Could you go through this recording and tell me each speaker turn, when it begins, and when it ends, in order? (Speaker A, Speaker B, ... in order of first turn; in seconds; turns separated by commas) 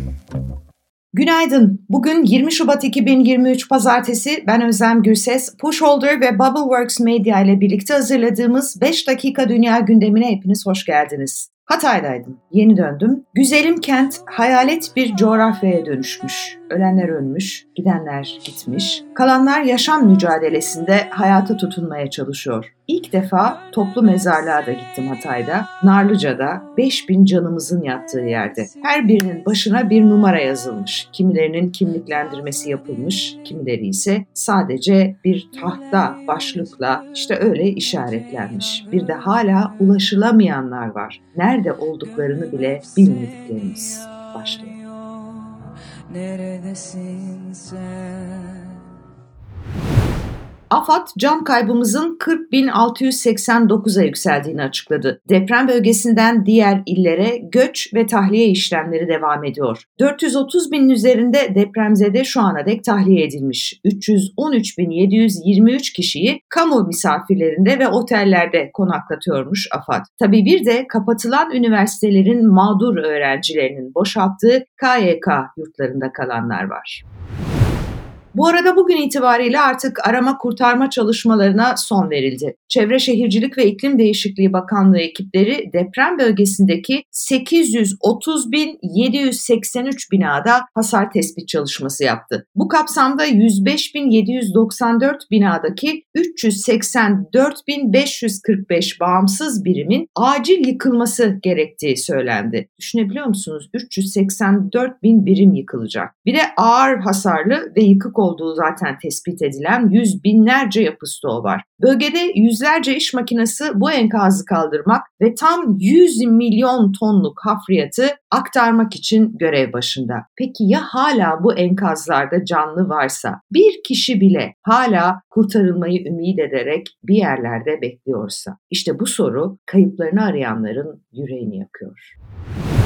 Speaker A: 1.1-44.7, Speaker A: 50.7-77.0, Speaker A: 78.3-132.1